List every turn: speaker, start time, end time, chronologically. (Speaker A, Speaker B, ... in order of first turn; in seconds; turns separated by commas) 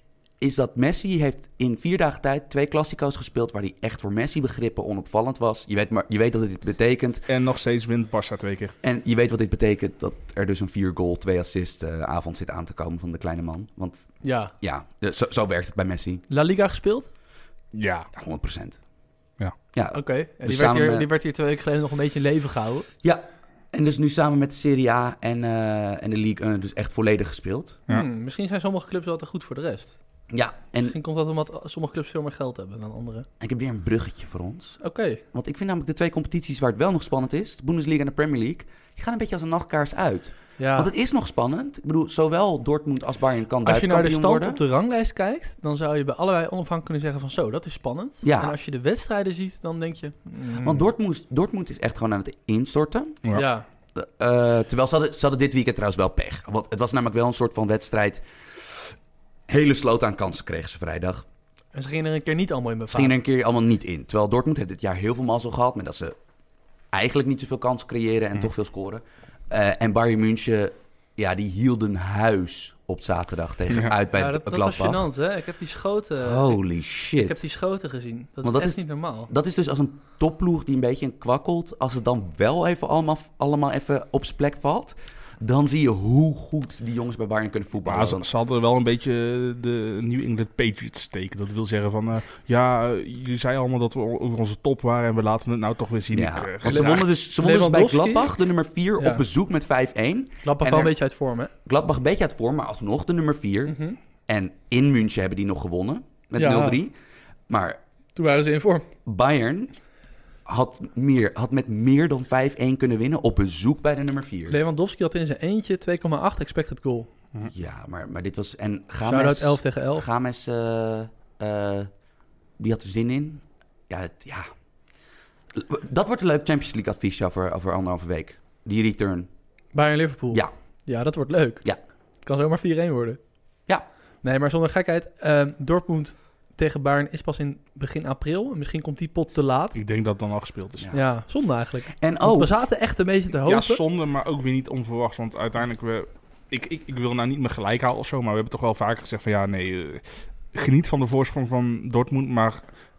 Speaker A: 0.4-7.2, Speaker B: 7.3-8.7, Speaker A: 8.8-16.2, Speaker C: 14.2-14.5, Speaker C: 16.3-17.1, Speaker B: 17.7-18.1, Speaker A: 18.1-18.8, Speaker A: 19.7-21.1, Speaker C: 19.9-22.9, Speaker A: 23.0-27.8, Speaker C: 27.9-29.9, Speaker A: 30.3-30.9, Speaker C: 30.8-33.3, Speaker A: 33.4-34.8, Speaker C: 34.8-35.2, Speaker A: 35.3-44.6, Speaker C: 40.6-40.9, Speaker C: 43.6-50.8, Speaker A: 48.2-48.5, Speaker A: 50.6-53.2, Speaker C: 53.3-53.6, Speaker A: 53.9-58.9, Speaker A: 59.5-61.2, Speaker C: 61.7-63.1, Speaker A: 62.9-66.2, Speaker A: 66.9-75.1, Speaker C: 74.1-76.6, Speaker A: 76.2-77.4, Speaker C: 77.2-79.3, Speaker A: 78.4-88.3, Speaker B: 87.8-97.1, Speaker A: 96.1-100.9, Speaker C: 96.6-98.3, Speaker C: 99.0-99.2, Speaker C: 100.4-101.5, Speaker A: 101.7-103.8, Speaker C: 103.7-104.0, Speaker A: 104.3-106.9, Speaker C: 106.4-106.8, Speaker A: 107.5-107.8, Speaker C: 108.2-108.9, Speaker A: 109.0-109.7, Speaker A: 110.5-114.5, Speaker C: 114.5-117.1, Speaker A: 117.4-121.9, Speaker C: 119.0-120.0, Speaker A: 122.6-124.5, Speaker A: 125.5-129.3, Speaker C: 129.7-131.6, Speaker C: 132.2-133.2, Speaker C: 134.2-139.8, Speaker B: 139.7-140.9, Speaker C: 140.9-143.8, Speaker A: 141.9-142.6, Speaker B: 143.4-152.6